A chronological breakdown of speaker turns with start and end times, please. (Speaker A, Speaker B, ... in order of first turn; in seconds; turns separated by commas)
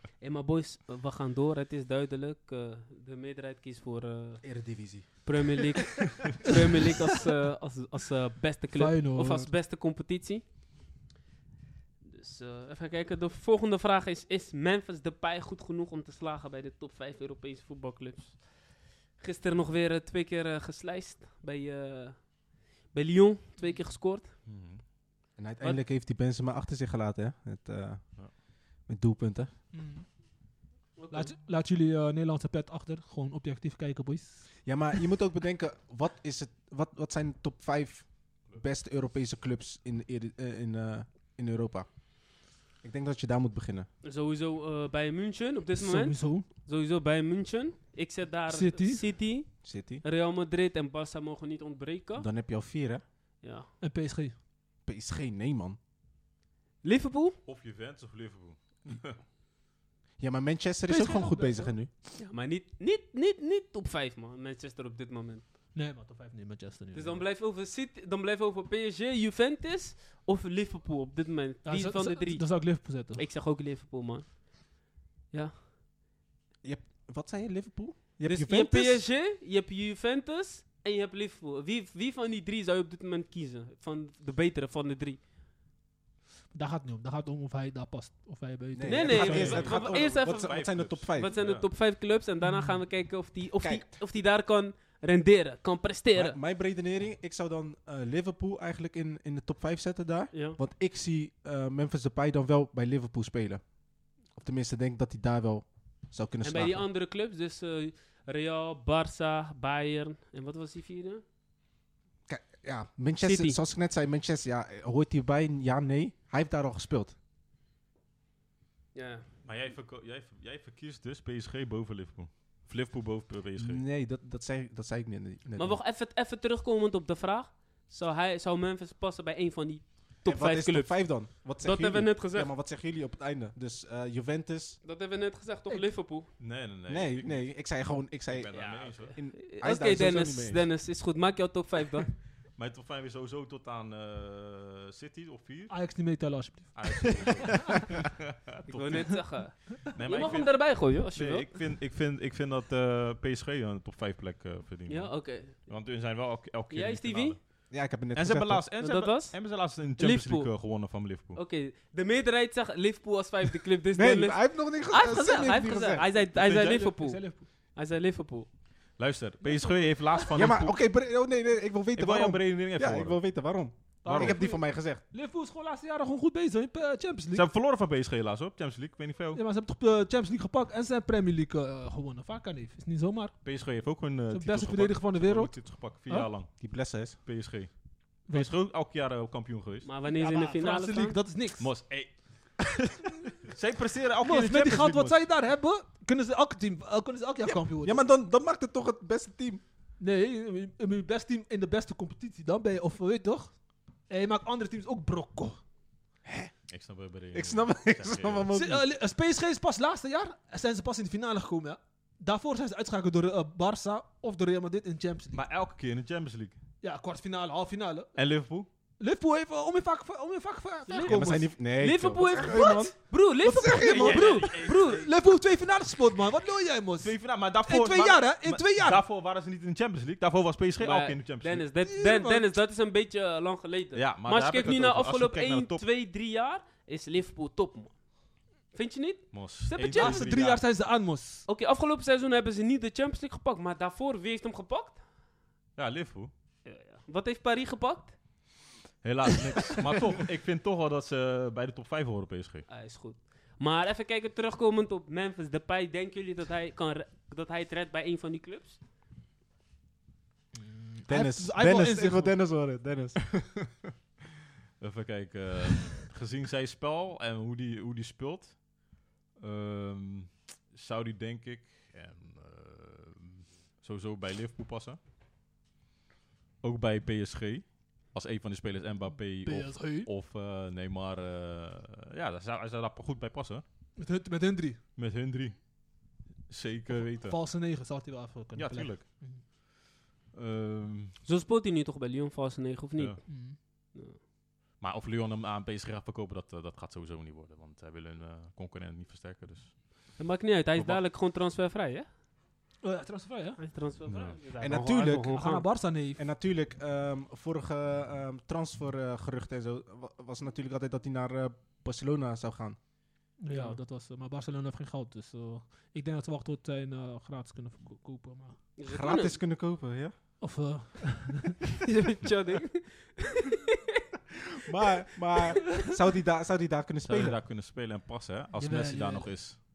Speaker A: 0.2-4.4, Speaker B: 4.4-5.6, Speaker A: 5.2-10.4, Speaker C: 8.7-9.5, Speaker A: 12.0-22.4, Speaker A: 22.9-24.3, Speaker D: 24.4-24.8, Speaker B: 25.4-28.2, Speaker B: 28.8-29.5, Speaker C: 29.7-30.1, Speaker A: 31.0-31.3, Speaker C: 31.1-34.5, Speaker B: 34.6-41.9, Speaker B: 42.8-43.9, Speaker A: 44.0-52.3, Speaker C: 45.8-46.5, Speaker C: 48.5-49.1, Speaker B: 49.6-50.0, Speaker B: 52.1-53.0, Speaker A: 53.4-53.7, Speaker C: 53.8-54.3, Speaker B: 54.8-55.8, Speaker A: 56.8-57.4, Speaker D: 57.5-59.2, Speaker B: 60.2-61.9, Speaker C: 60.9-61.7, Speaker A: 62.2-65.4, Speaker C: 65.7-67.2, Speaker A: 66.9-74.8, Speaker C: 71.6-73.2, Speaker A: 75.3-75.5, Speaker B: 76.6-79.0, Speaker A: 78.2-85.2, Speaker C: 86.5-89.7, Speaker B: 88.7-91.3, Speaker A: 88.8-96.4, Speaker D: 89.2-91.7, Speaker C: 92.4-92.8, Speaker B: 93.6-93.9, Speaker B: 96.1-103.6, Speaker A: 100.3-100.6, Speaker B: 104.3-106.8, Speaker A: 106.4-111.2, Speaker B: 112.3-117.1, Speaker A: 113.2-113.6, Speaker A: 118.9-119.2, Speaker D: 119.4-123.8, Speaker B: 123.6-125.8, Speaker A: 125.5-132.5, Speaker B: 130.2-134.8, Speaker A: 134.8-136.3, Speaker D: 136.4-137.5, Speaker B: 136.9-140.6, Speaker D: 138.3-139.1, Speaker A: 138.5-142.1, Speaker D: 142.6-145.8, Speaker C: 145.7-147.8, Speaker D: 146.7-149.3, Speaker A: 148.7-151.5, Speaker D: 149.9-157.4, Speaker A: 154.9-155.7, Speaker A: 156.7-157.4, Speaker B: 157.7-158.6, Speaker D: 158.1-161.4, Speaker A: 158.8-159.4, Speaker A: 159.9-160.5, Speaker A: 161.3-168.5, Speaker B: 163.9-166.0, Speaker D: 166.3-166.8, Speaker C: 166.4-167.4, Speaker D: 169.0-170.7, Speaker B: 170.3-175.0, Speaker D: 171.9-173.2, Speaker C: 174.0-177.4, Speaker D: 174.0-174.4, Speaker D: 177.3-179.4, Speaker C: 179.3-183.3, Speaker D: 183.4-186.6, Speaker C: 184.3-186.3, Speaker B: 186.6-187.2, Speaker D: 187.2-187.7, Speaker D: 188.2-189.9, Speaker A: 189.8-191.2, Speaker C: 190.0-191.7, Speaker D: 191.6-192.7, Speaker D: 193.5-195.2, Speaker C: 194.2-198.0, Speaker B: 197.8-199.6, Speaker C: 200.0-205.6, Speaker B: 206.2-206.5, Speaker D: 206.7-208.5, Speaker B: 207.3-208.8, Speaker C: 208.5-215.4, Speaker D: 215.3-216.6, Speaker C: 216.8-218.1, Speaker D: 218.2-218.7, Speaker C: 219.0-221.5, Speaker A: 220.9-225.1, Speaker B: 221.0-224.4, Speaker C: 222.4-222.7, Speaker D: 223.8-225.1, Speaker C: 223.9-229.0, Speaker D: 227.0-231.6, Speaker A: 230.8-237.9, Speaker C: 231.8-232.5, Speaker D: 233.9-235.8, Speaker A: 238.7-240.3, Speaker D: 239.3-240.6, Speaker C: 239.9-241.4, Speaker A: 241.5-245.0, Speaker D: 245.8-246.3, Speaker A: 246.6-248.1, Speaker D: 249.0-252.7, Speaker A: 252.7-258.8, Speaker C: 260.5-262.4, Speaker B: 261.1-263.6, Speaker D: 264.8-268.7, Speaker D: 269.4-275.0, Speaker D: 276.6-283.6, Speaker C: 279.4-280.1, Speaker C: 284.0-284.8, Speaker D: 284.9-285.6, Speaker D: 286.5-287.4, Speaker C: 286.9-289.4, Speaker D: 288.5-289.1, Speaker D: 290.3-291.2, Speaker A: 291.2-293.3, Speaker C: 293.3-293.6, Speaker D: 294.8-299.9, Speaker A: 300.2-302.1, Speaker C: 302.8-303.6, Speaker A: 303.6-305.7, Speaker D: 304.1-304.4, Speaker B: 304.6-305.4, Speaker C: 305.3-306.2, Speaker B: 306.1-312.8, Speaker C: 313.4-318.6, Speaker A: 313.5-313.8, Speaker A: 318.8-319.4, Speaker B: 318.9-320.1, Speaker C: 320.4-321.6, Speaker A: 321.8-324.0, Speaker B: 324.6-327.4, Speaker D: 327.0-329.6, Speaker C: 328.6-329.4